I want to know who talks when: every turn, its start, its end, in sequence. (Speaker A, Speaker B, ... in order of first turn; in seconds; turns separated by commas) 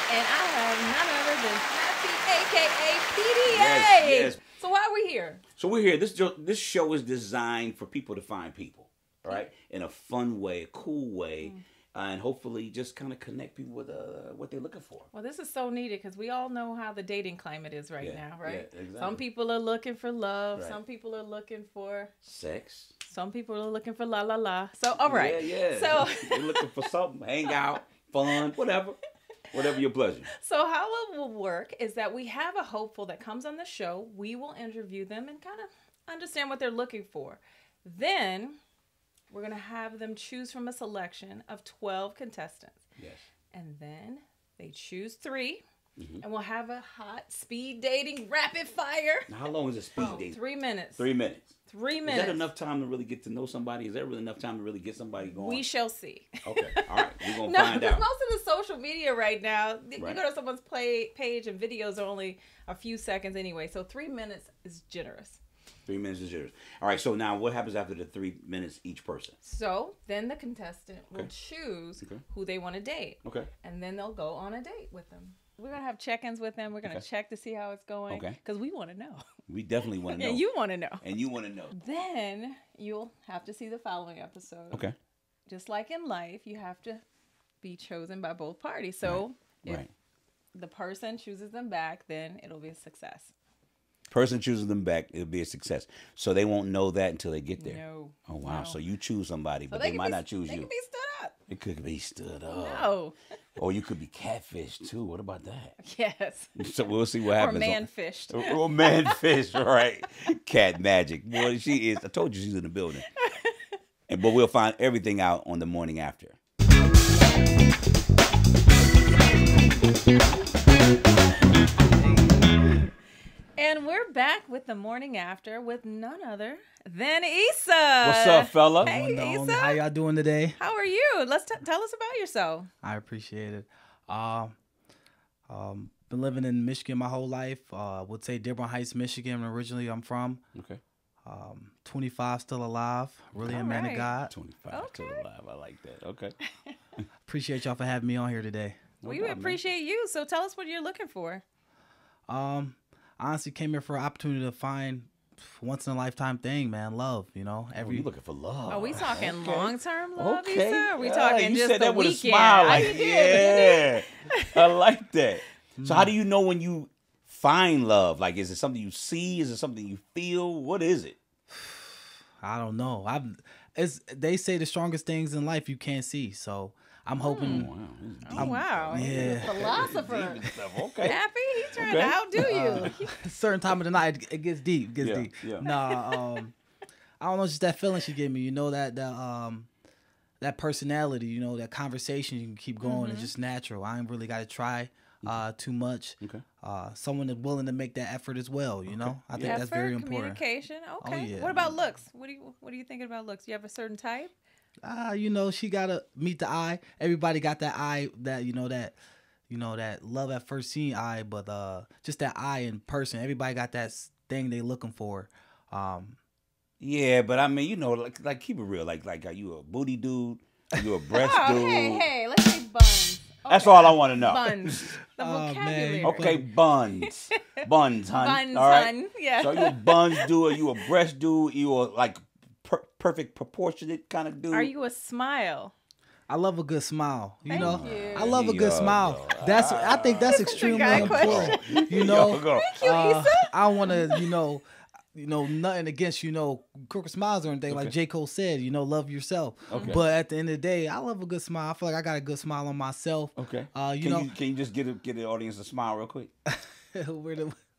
Speaker A: 0.1-5.4, Speaker B: 3.5-4.4, Speaker B: 5.6-15.1, Speaker A: 15.1-22.2, Speaker B: 18.0-19.2, Speaker B: 22.2-22.9, Speaker A: 23.1-26.8, Speaker B: 25.0-29.0, Speaker A: 27.5-28.5, Speaker B: 29.5-30.3, Speaker A: 30.3-38.6, Speaker A: 39.3-42.8, Speaker A: 43.5-45.6, Speaker B: 46.0-46.2, Speaker A: 46.2-49.3, Speaker B: 49.3-50.4, Speaker A: 50.0-51.1, Speaker B: 51.0-51.5, Speaker A: 51.7-52.5, Speaker B: 52.0-55.6, Speaker A: 55.3-65.4, Speaker B: 56.4-58.0, Speaker B: 65.9-69.3, Speaker A: 69.4-79.2, Speaker B: 73.2-73.5, Speaker B: 78.1-78.4, Speaker B: 79.5-80.5, Speaker A: 80.0-81.0, Speaker B: 81.0-81.8, Speaker A: 81.7-84.9, Speaker B: 84.7-85.0, Speaker A: 85.5-87.0, Speaker A: 87.6-89.8, Speaker B: 89.0-89.9, Speaker A: 90.5-93.3, Speaker B: 94.1-100.7, Speaker A: 97.6-98.8, Speaker A: 99.7-101.4, Speaker B: 101.5-102.9, Speaker A: 102.5-103.2, Speaker B: 103.6-105.7, Speaker A: 105.8-106.7, Speaker B: 106.6-113.0, Speaker A: 107.3-109.2, Speaker A: 113.0-113.6, Speaker B: 114.1-116.4, Speaker C: 121.9-122.7, Speaker A: 123.6-129.8, Speaker B: 128.0-128.9, Speaker C: 128.8-130.6, Speaker A: 130.6-132.7, Speaker C: 132.8-134.6, Speaker C: 135.5-140.4, Speaker B: 140.6-140.8, Speaker C: 141.2-144.3, Speaker A: 143.4-144.1, Speaker B: 144.3-146.4, Speaker A: 144.7-145.2, Speaker C: 147.3-149.2, Speaker B: 149.0-149.6, Speaker A: 149.0-151.4, Speaker C: 152.3-158.1, Speaker B: 157.8-171.2, Speaker A: 158.7-164.5, Speaker C: 162.7-163.0, Speaker C: 165.8-166.1, Speaker C: 171.5-177.7, Speaker A: 177.2-177.7, Speaker B: 177.4-181.2, Speaker A: 178.2-183.2, Speaker C: 178.3-179.6, Speaker B: 181.7-183.0, Speaker C: 182.4-186.6, Speaker B: 185.0-185.7, Speaker A: 185.6-186.2, Speaker C: 187.2-189.7, Speaker C: 190.4-200.4, Speaker A: 192.8-193.3, Speaker B: 198.9-199.6, Speaker A: 199.3-204.3, Speaker C: 201.0-201.8, Speaker C: 204.8-209.0, Speaker C: 209.5-216.2, Speaker B: 216.8-222.1, Speaker A: 221.1-226.4, Speaker B: 223.5-224.9, Speaker C: 225.2-226.4, Speaker B: 226.0-234.7, Speaker A: 227.0-227.4, Speaker A: 228.1-230.6, Speaker A: 234.5-235.7, Speaker C: 236.3-254.3, Speaker A: 237.5-238.4, Speaker B: 237.5-243.0, Speaker A: 240.0-244.3, Speaker B: 247.7-247.9, Speaker A: 249.7-250.0, Speaker B: 249.7-250.0, Speaker B: 253.4-256.3, Speaker C: 256.5-257.6